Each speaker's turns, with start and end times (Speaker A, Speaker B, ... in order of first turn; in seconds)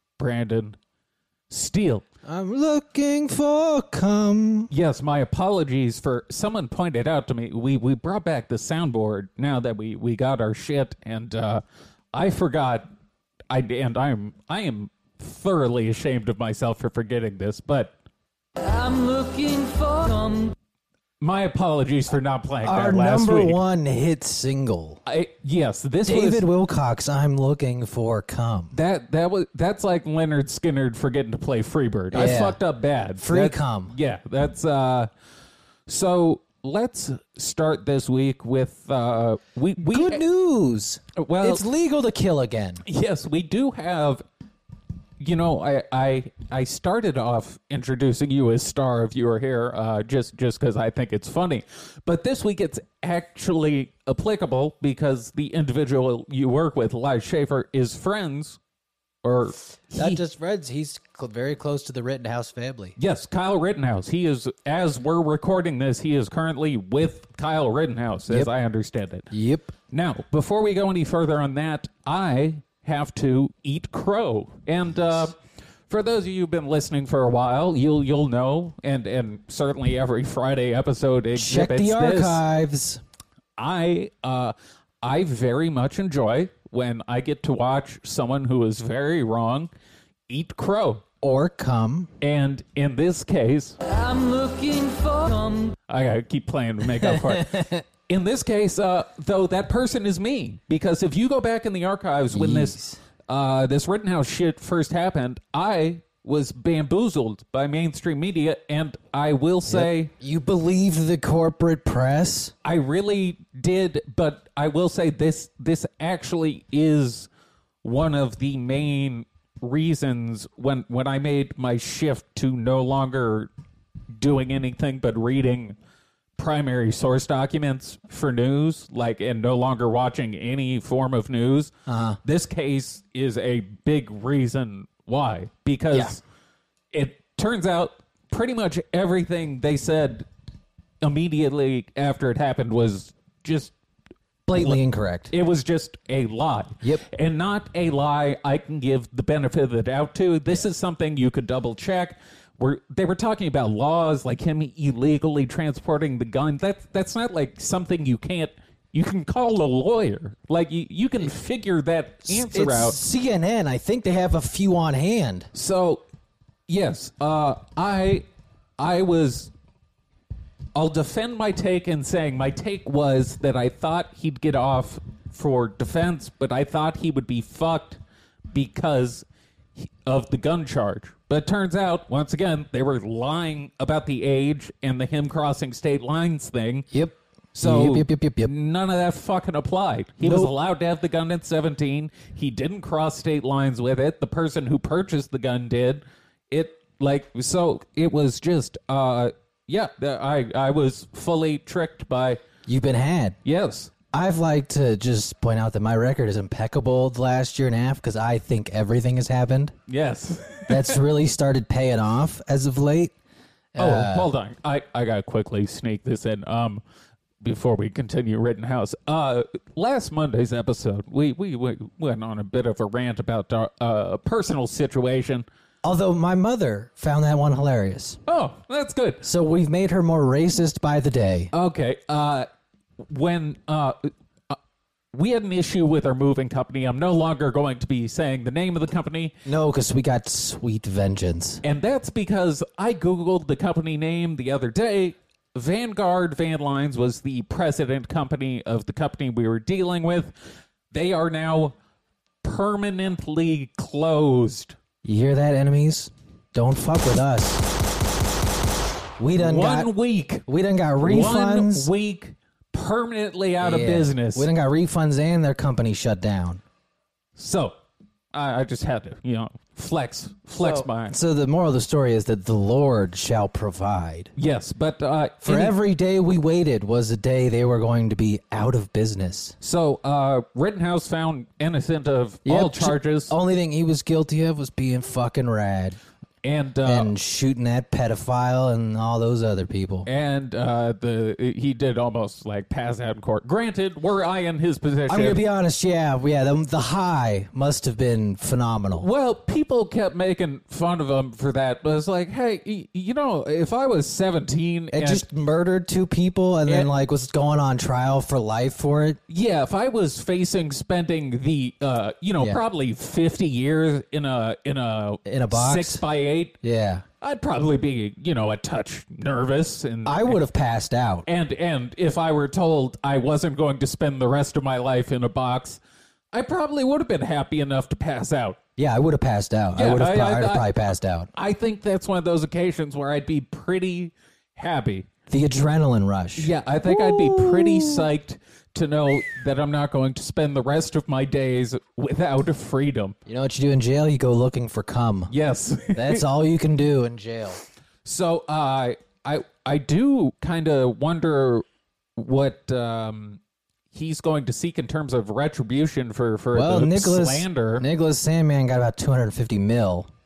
Speaker A: 0.2-0.8, 1.5-2.0, 4.7-12.9, 13.5-17.9, 21.2-23.6, 25.1-26.4, 28.7-35.1, 35.9-40.2, 41.1-41.6, 42.8-44.2, 45.2-58.6, 59.2-60.2, 63.0-69.3, 69.9-75.4, 75.9-82.4, 83.6-89.7, 90.3-91.0, 92.2-93.8, 95.9-110.1, 112.6-117.3, 117.8-123.5, 124.2-125.8, 126.4-131.7, 132.2-136.2, 136.9-140.2, 141.0-143.7, 144.5-144.8, 145.3-163.0, 165.5-166.0, 166.7-168.2, 168.8-169.5, 170.7-178.0, 178.5-179.2, 179.8-186.9, 187.5-202.4, 203.4-203.9, 209.9-211.0, 213.8-216.8, 217.4-225.4, 228.3-229.2, 231.5-232.5, 233.1-234.6, 235.1-239.3, 241.6-250.3, 250.9-251.7, 252.4-254.8, 259.4-260.4, 261.0-264.5, 267.4-267.7, 268.3-271.1, 274.4-275.8, 279.6-283.3, 286.4-287.1, 290.0-295.4, 299.0-305.2, 309.3-316.5, 317.2-320.4, 321.2-325.8, 326.3-328.6, 329.7-330.7, 331.3-335.1, 336.4-343.1, 345.3-346.2, 348.0-351.6, 352.2-353.4, 353.9-357.8
Speaker B: 2.2-4.7, 22.6-25.0, 26.1-28.8, 32.1-32.6, 33.2-34.0, 39.8-42.8, 59.9-63.0, 69.3-69.7, 81.3-83.0, 91.2-92.1, 97.0-97.8, 102.3-103.0, 109.7-112.5, 131.8-132.2, 135.9-136.2, 144.5-145.3, 162.3-165.5, 186.9-188.5, 190.2-190.5, 202.7-203.4, 204.1-209.7, 210.7-213.1, 213.7-214.3, 225.8-228.2, 229.2-231.5, 239.4-241.6, 255.0-257.6, 259.2-259.9, 260.4-261.9, 263.6-266.6, 270.6-274.3, 275.4-279.6, 282.4-286.0, 286.8-290.1, 295.1-299.1, 304.9-309.2, 315.2-316.0, 316.6-317.0, 320.0-321.3, 328.8-331.3, 335.3-338.1, 343.2-345.3, 345.9-347.6, 356.5-360.1
Speaker C: 18.6-20.5, 93.8-95.8